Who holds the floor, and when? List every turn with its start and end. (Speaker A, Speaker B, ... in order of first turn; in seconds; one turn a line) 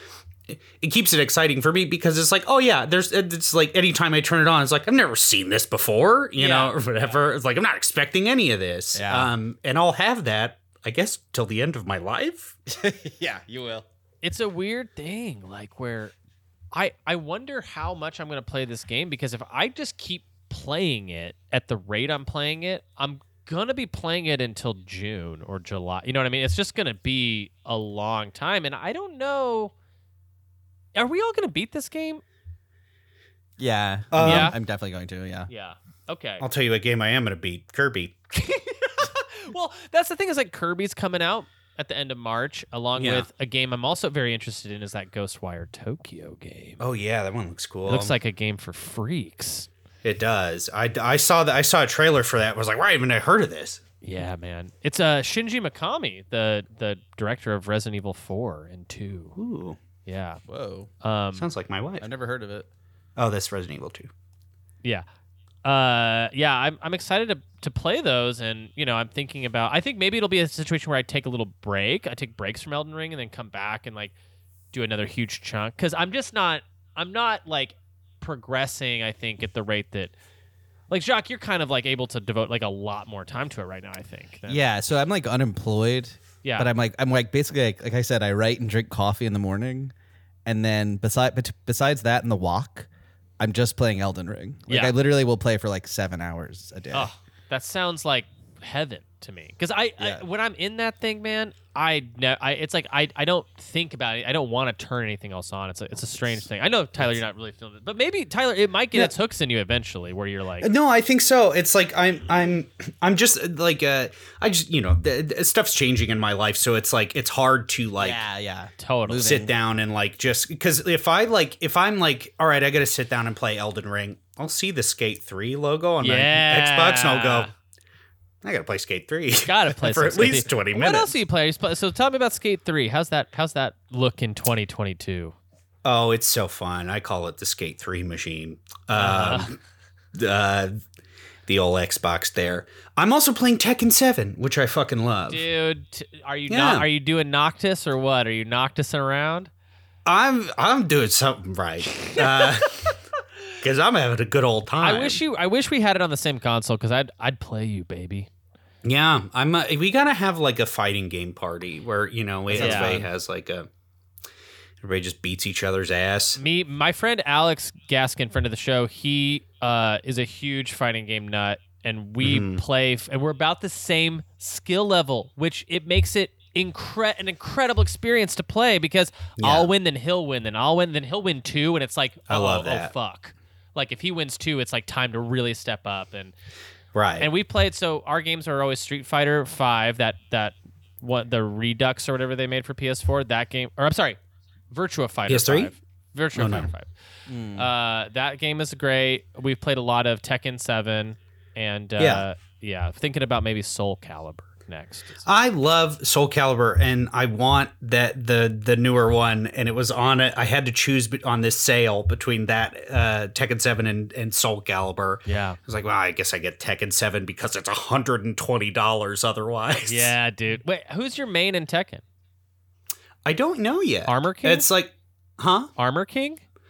Speaker A: 0.5-12.6
Speaker B: 6.4-7.2
Speaker C: 8.9-9.3
Speaker C: 12.7-13.8
Speaker B: 14.2-16.1
Speaker B: 16.7-29.7
Speaker B: 30.9-32.2
Speaker C: 33.6-35.5
Speaker A: 34.1-34.5
Speaker B: 34.2-34.6
Speaker B: 35.5-36.4
Speaker A: 36.4-38.2
Speaker B: 38.3-46.8
Speaker A: 43.0-43.3
Speaker A: 46.8-48.1
Speaker B: 47.9-49.7
Speaker A: 50.0-53.8
Speaker B: 54.0-59.3
Speaker A: 59.4-59.8
Speaker B: 60.0-60.4
Speaker C: 60.5-60.9
Speaker B: 61.0-61.5
Speaker A: 61.3-62.0
Speaker C: 62.0-62.7
Speaker A: 63.2-64.1
Speaker B: 65.6-74.1
Speaker B: 74.7-80.1
Speaker B: 80.9-84.6
Speaker C: 84.5-89.9
Speaker B: 86.4-86.7
Speaker C: 90.5-92.9
Speaker C: 93.4-97.1
Speaker B: 94.7-94.9
Speaker B: 96.9-110.7
Speaker C: 100.0-100.2
Speaker A: 110.6-118.2
Speaker C: 118.0-119.5
Speaker B: 118.8-119.3
Speaker A: 119.2-127.5
Speaker B: 126.0-127.5
Speaker A: 128.4-131.2
Speaker B: 129.4-135.3
Speaker A: 135.8-139.6
Speaker B: 138.9-139.5
Speaker A: 140.1-140.8
Speaker A: 141.5-145.4
Speaker B: 145.3-149.5
Speaker A: 146.5-146.9
Speaker A: 150.1-152.9
Speaker B: 152.0-152.5
Speaker A: 153.6-155.2
Speaker B: 154.8-158.3
Speaker A: 158.8-163.7
Speaker C: 162.5-163.1
Speaker B: 162.5-163.0
Speaker A: 164.8-166.4
Speaker B: 166.4-186.3
Speaker A: 172.2-172.6
Speaker A: 179.4-179.7
Speaker A: 182.3-182.9
Speaker A: 186.9-187.3
Speaker B: 187.2-194.2
Speaker B: 194.7-196.9
Speaker A: 195.3-195.7
Speaker A: 196.3-196.7
Speaker C: 197.3-197.7
Speaker B: 197.6-205.2
Speaker A: 202.0-202.2
Speaker A: 205.2-220.1
Speaker B: 215.2-215.6
Speaker B: 219.8-222.0
Speaker A: 223.2-225.7
Speaker B: 224.1-224.7
Speaker B: 225.8-226.4